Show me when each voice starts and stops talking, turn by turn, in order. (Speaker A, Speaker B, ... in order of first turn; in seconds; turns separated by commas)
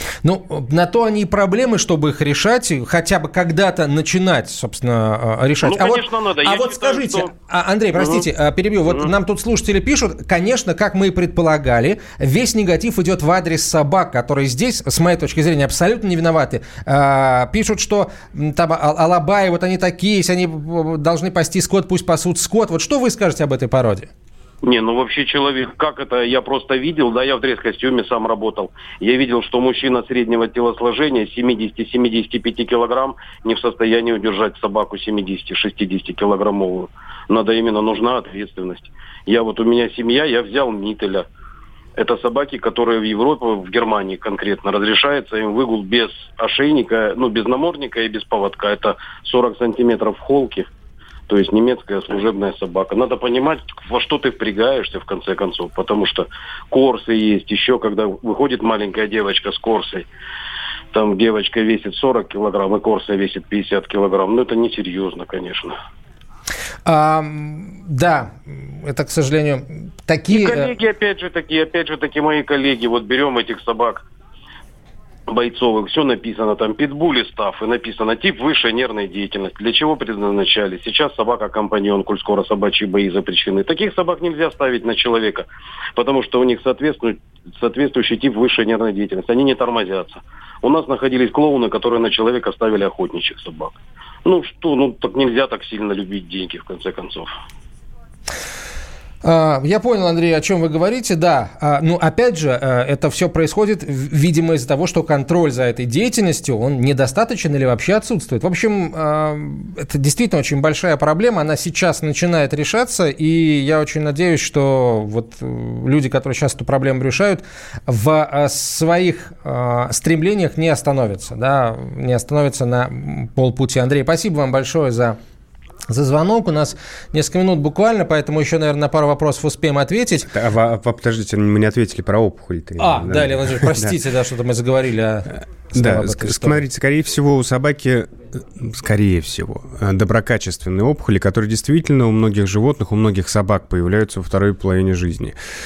Speaker A: 0.2-24.1, Speaker B: 5.6-7.3, Speaker B: 8.0-8.2, Speaker B: 24.6-41.3, Speaker B: 42.0-50.7, Speaker B: 51.3-60.1, Speaker B: 60.9-65.8, Speaker A: 66.9-70.7, Speaker B: 70.3-74.0, Speaker B: 75.3-97.3, Speaker A: 99.2-125.2, Speaker A: 125.9-130.3, Speaker C: 130.3-134.0, Speaker A: 132.8-136.6, Speaker C: 135.7-145.4